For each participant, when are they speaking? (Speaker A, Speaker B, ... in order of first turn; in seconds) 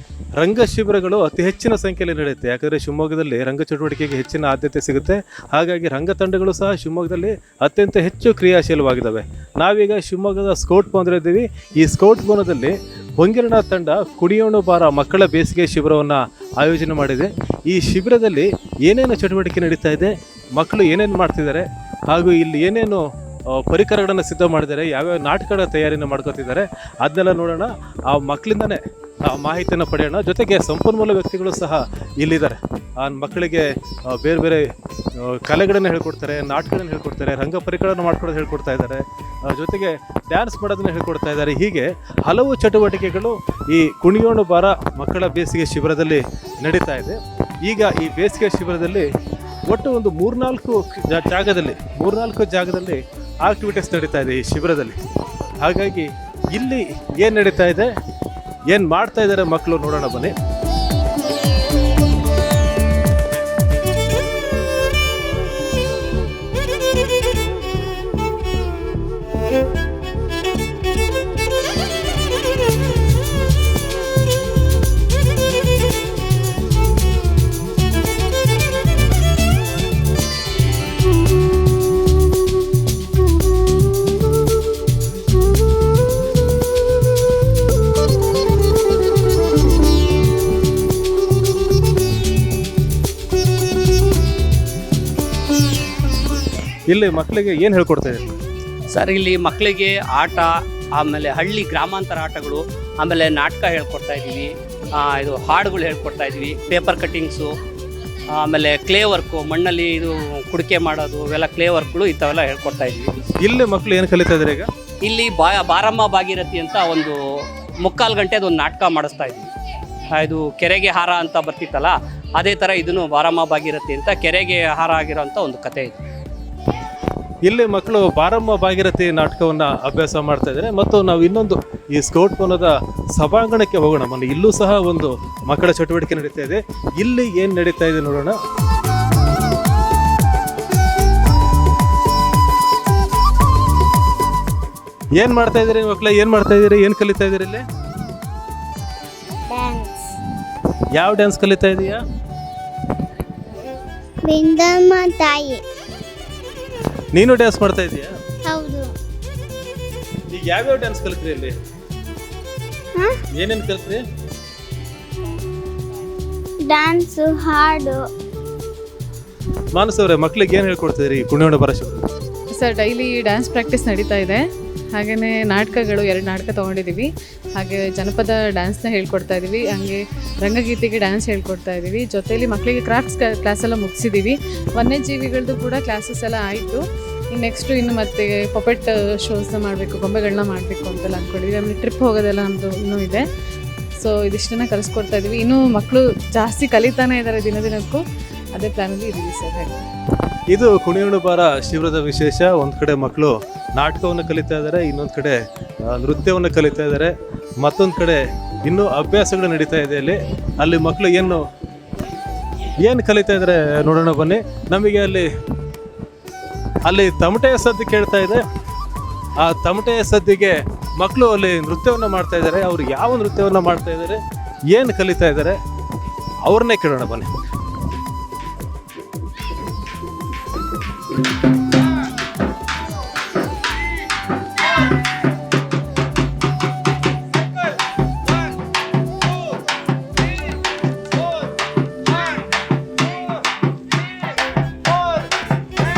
Speaker A: 0.4-34.6, 35.2-49.1, 49.7-55.0, 55.6-57.9, 58.7-60.3, 96.9-98.4, 113.4-114.7, 127.4-138.4, 145.2-147.6, 150.9-152.0, 157.1-158.1, 160.3-161.6, 163.3-164.0, 169.7-172.1, 200.5-211.4, 212.8-215.3, 216.8-218.4, 219.4-224.2, 224.7-225.6, 226.4-227.3
Speaker B: 98.9-107.5, 108.4-113.1, 115.0-117.2, 117.8-119.5, 120.1-126.0
Speaker C: 149.5-150.2, 154.2-155.6, 158.4-158.9, 166.6-168.0
Speaker D: 172.6-174.4, 174.9-186.8, 187.3-193.2, 194.0-198.0, 198.5-199.7